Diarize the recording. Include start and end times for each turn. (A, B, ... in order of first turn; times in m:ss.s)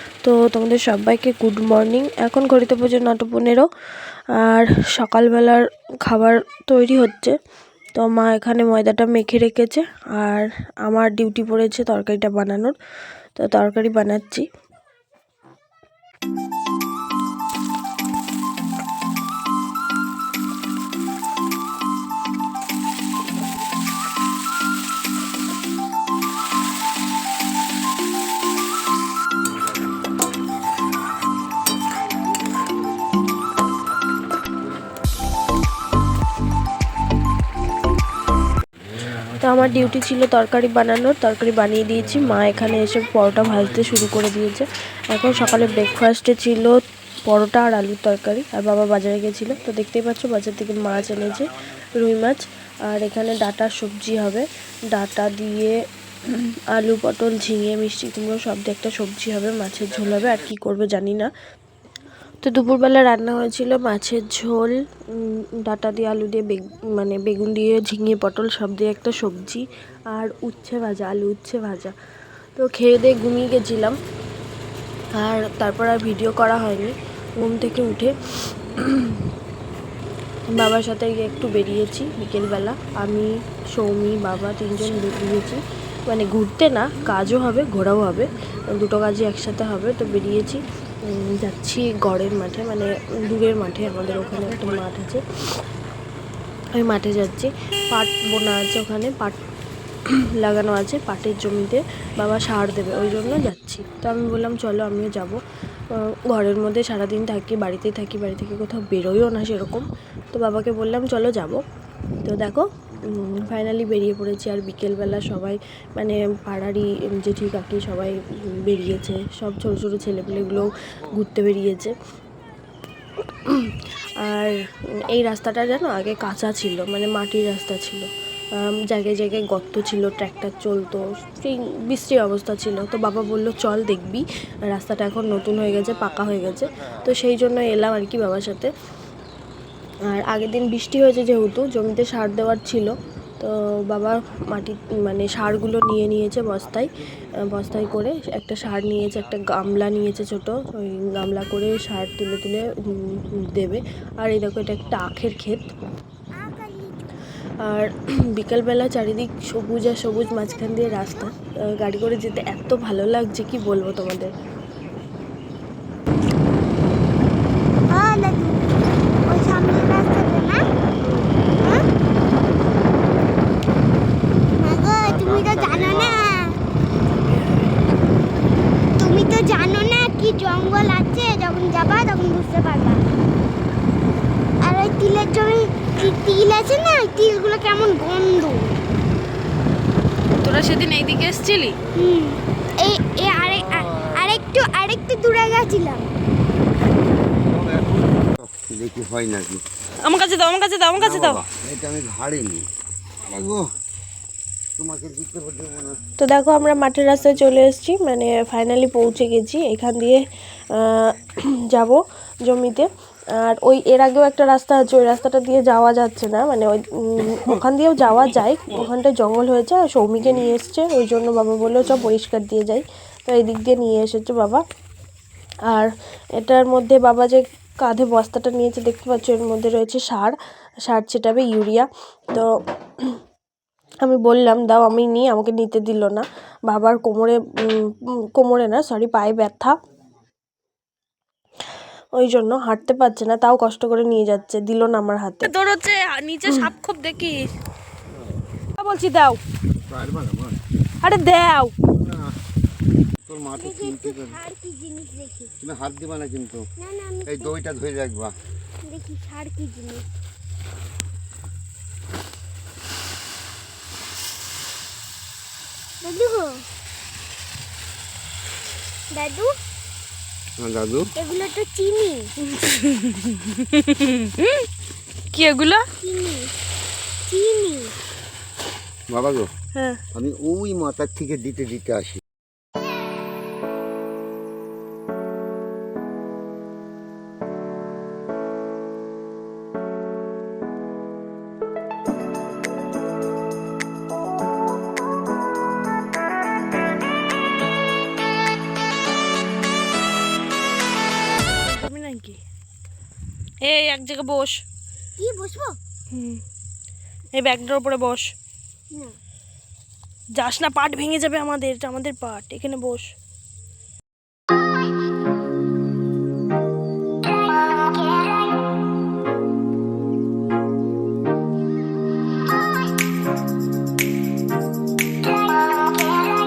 0:00.2-0:03.7 A
0:04.4-0:07.4 A
0:08.0-0:12.8 A
0:13.4-0:14.5 A
0:39.3-0:55.8 A
0:56.3-1:01.3 A
1:02.4-1:12.0 A
1:12.6-1:14.0 A
1:15.1-1:19.3 A
1:20.5-1:35.2 A
1:36.8-1:39.4 A
1:40.1-1:45.4 A
1:45.9-1:51.6 A
1:52.2-2:01.9 A
2:03.3-2:18.7 A
2:20.1-2:35.7 A
2:36.4-2:37.1 B
2:37.6-2:44.3 A
2:47.9-2:50.7 B
2:51.6-2:51.8 B
2:54.6-2:56.6 B
2:55.0-2:56.2 C
2:59.0-3:03.0 B
3:04.6-3:08.7 B
3:10.3-3:11.8 D
3:11.9-3:16.1 B
3:13.8-3:14.2 C
3:17.4-3:19.6 C
3:20.0-3:21.4 D
3:21.0-3:22.7 C
3:23.2-3:23.7 C
3:24.8-3:26.0 C
3:26.2-3:30.2 A
3:30.7-3:32.9 A
3:33.4-3:44.6 A
3:45.7-3:50.4 A
3:50.9-3:53.2 A
3:54.0-3:59.8 A
4:02.2-4:05.5 A
4:05.4-4:07.5 D
4:08.8-4:09.4 D
4:09.9-4:10.6 C
4:11.0-4:11.7 D
4:11.9-4:12.2 C
4:13.2-4:14.4 C
4:13.6-4:15.5 B
4:15.6-4:16.6 C
4:16.8-4:17.6 B
4:17.3-4:18.4 C
4:18.8-4:20.0 B
4:26.0-4:26.6 B
4:29.1-4:29.6 B
4:30.6-4:31.1 C
4:31.2-4:32.3 B
4:32.5-4:34.7 D
4:35.3-4:35.9 D
4:36.0-4:36.5 B
4:37.3-4:37.9 B
4:39.1-4:39.5 C
4:40.1-4:42.2 C
5:01.5-5:02.4 D
5:03.6-5:04.5 D
5:05.2-5:05.8 B
5:07.4-5:07.7 D
5:07.5-5:08.2 A
5:08.9-5:09.2 B
5:10.4-5:13.1 A